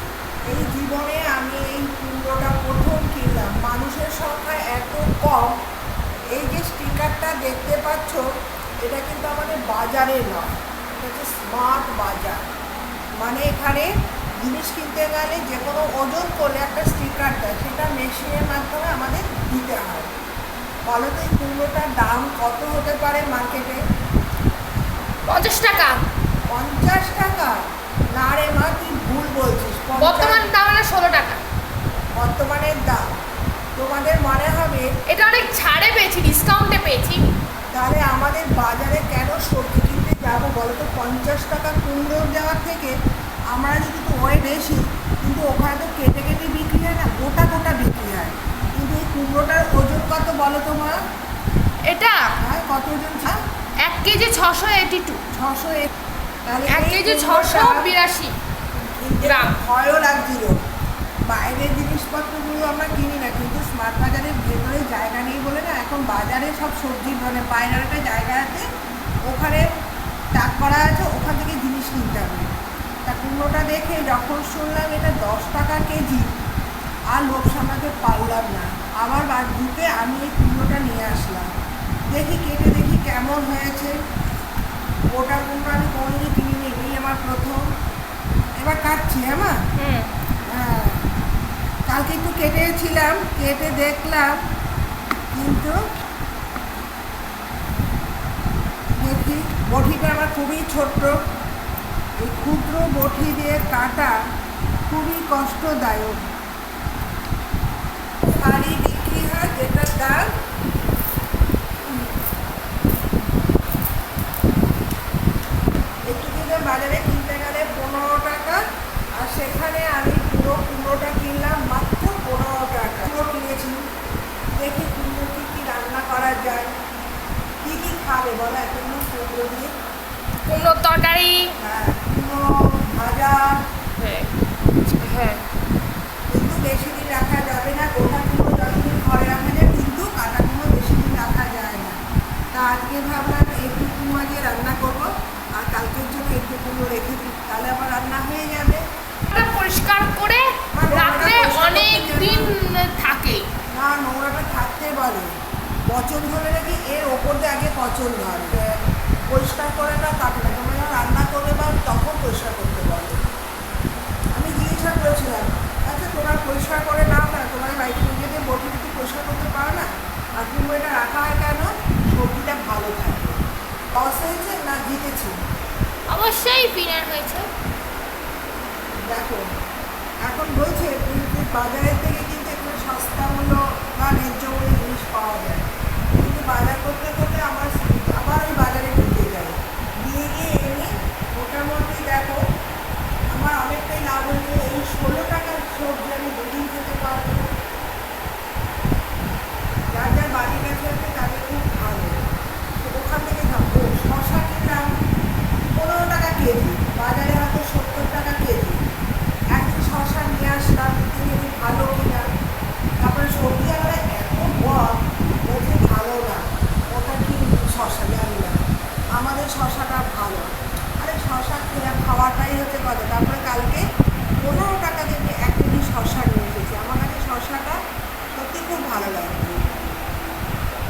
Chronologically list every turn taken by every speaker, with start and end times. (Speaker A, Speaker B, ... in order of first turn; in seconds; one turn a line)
Speaker A: 0.5-5.6
Speaker A: 6.3-8.3
Speaker A: 8.8-12.4
Speaker A: 13.2-20.1
Speaker A: 20.9-23.8
Speaker B: 25.3-26.0
Speaker A: 26.5-27.6
Speaker A: 28.2-30.5
Speaker B: 30.0-31.4
Speaker A: 32.2-33.1
Speaker A: 33.8-34.9
Speaker B: 35.1-37.2
Speaker A: 37.7-42.9
Speaker A: 43.5-51.0
Speaker B: 51.9-52.3
Speaker A: 52.4-53.4
Speaker B: 53.8-55.2
Speaker A: 55.3-55.9
Speaker A: 56.5-57.9
Speaker B: 56.7-58.3
Speaker A: 59.0-60.6
Speaker B: 59.2-59.5
Speaker A: 61.3-68.7
Speaker A: 69.3-69.7
Speaker A: 70.3-72.5
Speaker A: 73.1-76.3
Speaker A: 77.1-81.5
Speaker A: 82.1-83.9
Speaker A: 85.1-87.6
Speaker A: 88.6-89.5
Speaker B: 89.8-90.1
Speaker A: 90.5-91.0
Speaker A: 91.9-94.3
Speaker A: 95.3-95.7
Speaker A: 99.0-101.2
Speaker A: 102.2-104.2
Speaker A: 104.9-106.3
Speaker A: 108.2-110.3
Speaker A: 116.1-118.6
Speaker A: 119.2-123.8
Speaker A: 124.6-126.7
Speaker A: 127.6-129.7
Speaker B: 130.5-131.5
Speaker A: 131.6-133.5
Speaker B: 134.0-134.3
Speaker B: 134.9-135.4
Speaker A: 136.3-142.0
Speaker A: 142.5-148.8
Speaker B: 149.3-153.4
Speaker A: 150.7-152.5
Speaker A: 153.7-155.3
Speaker A: 155.9-158.7
Speaker A: 159.3-163.2
Speaker A: 164.3-169.9
Speaker A: 170.4-173.4
Speaker A: 173.9-175.4
Speaker B: 176.1-177.5
Speaker A: 179.1-179.5
Speaker A: 180.2-185.7
Speaker A: 186.2-192.4
Speaker A: 193.3-197.5
Speaker A: 199.9-202.2
Speaker A: 202.8-204.9
Speaker A: 205.8-208.8
Speaker A: 209.5-212.2
Speaker A: 213.0-218.6
Speaker A: 219.2-220.5
Speaker A: 221.0-223.8
Speaker A: 224.4-227.8
Speaker A: 228.3-229.6